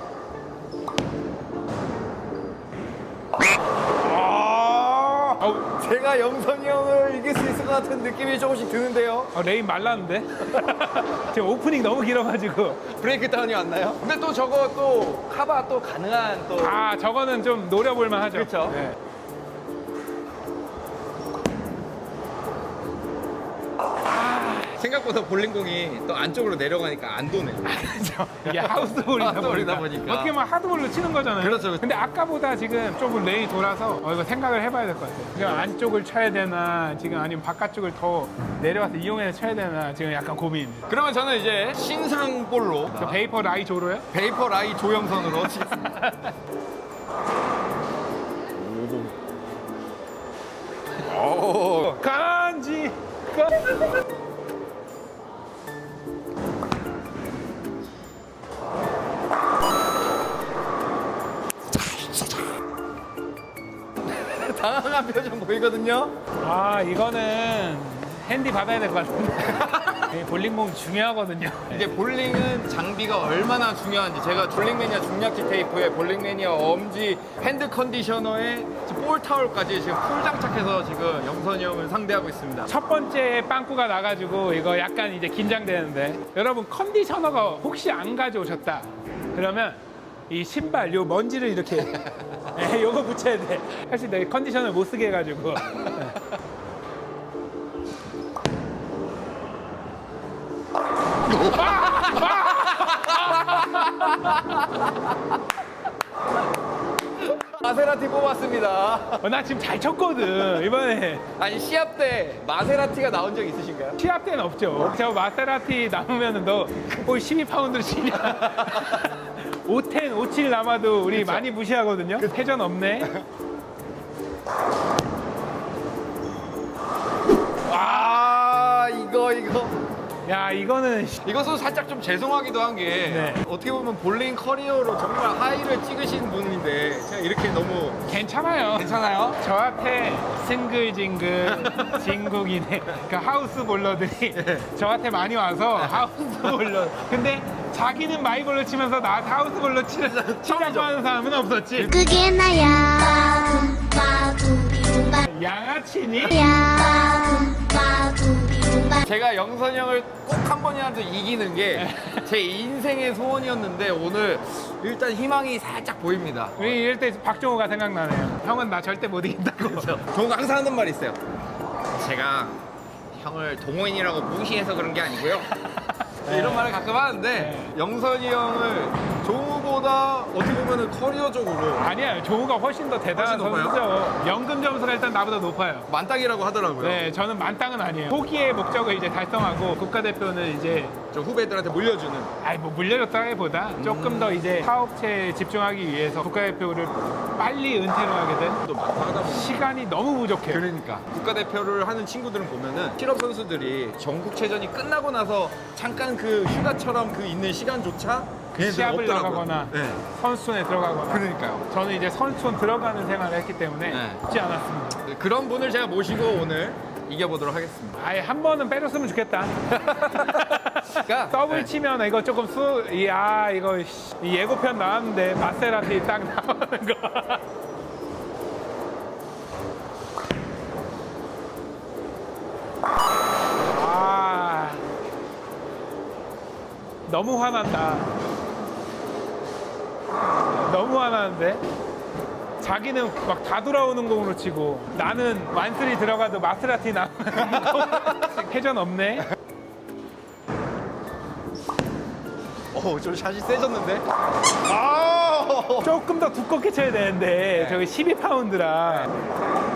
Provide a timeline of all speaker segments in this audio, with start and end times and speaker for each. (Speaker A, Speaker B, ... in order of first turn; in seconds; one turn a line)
Speaker A: 4.0-9.3
Speaker B: 9.3-12.8
Speaker A: 12.8-16.8
Speaker B: 16.6-19.0
Speaker A: 18.3-18.8
Speaker B: 24.1-24.8
Speaker A: 24.8-27.8
Speaker B: 27.7-40.9
Speaker A: 28.4-30.4
Speaker A: 31.4-31.9
Speaker A: 35.4-35.7
Speaker A: 40.9-43.2
Speaker B: 43.0-44.1
Speaker A: 44.1-45.9
Speaker B: 45.8-46.3
Speaker A: 48.6-49.2
Speaker A: 51.0-52.0
Speaker B: 51.9-53.7
Speaker A: 61.8-62.5
Speaker A: 64.0-66.2
Speaker B: 66.4-71.9
Speaker A: 69.7-69.9
Speaker A: 71.7-82.7
Speaker B: 82.7-96.2
Speaker B: 101.3-104.0
Speaker A: 101.3-105.1
Speaker A: 107.2-109.2
Speaker B: 109.2-111.3
Speaker A: 111.4-114.0
Speaker B: 114.0-123.1
Speaker A: 118.3-119.0
Speaker A: 121.1-121.5
Speaker A: 127.7-129.8
Speaker B: 130.2-131.2
Speaker A: 131.2-138.1
Speaker B: 133.1-133.4
Speaker B: 138.1-152.0
Speaker A: 138.7-139.4
Speaker A: 141.4-142.0
Speaker A: 144.3-144.7
Speaker A: 145.8-146.6
Speaker A: 150.1-150.9
Speaker C: 151.8-155.3
Speaker B: 155.2-156.4
Speaker C: 156.3-159.0
Speaker A: 159.0-166.8
Speaker B: 161.8-162.3
Speaker B: 166.6-170.0
Speaker A: 169.6-171.2
Speaker A: 172.0-172.6
Speaker A: 173.1-175.5
Speaker B: 175.8-176.7
Speaker A: 176.2-181.9
Speaker B: 177.4-177.7
Speaker B: 181.8-185.9
Speaker A: 183.1-183.8
Speaker A: 185.9-187.1
Speaker B: 186.8-191.0
Speaker A: 191.0-192.3
Speaker B: 192.4-198.6
Speaker A: 193.8-194.6
Speaker A: 198.6-199.7
Speaker B: 199.3-200.7
Speaker A: 200.5-210.0
Speaker B: 208.5-215.0
Speaker A: 211.1-211.7
Speaker A: 213.9-214.2
Speaker A: 215.0-218.0
Speaker B: 218.0-219.6
Speaker A: 219.7-221.7
Speaker B: 220.2-227.4
Speaker B: 233.7-234.8
Speaker B: 237.1-238.1
Speaker B: 240.5-241.6
Speaker B: 242.6-249.3
Speaker A: 247.5-248.2
Speaker A: 252.7-254.1
Speaker A: 254.6-255.9
Speaker B: 255.8-259.1
Speaker A: 257.5-257.8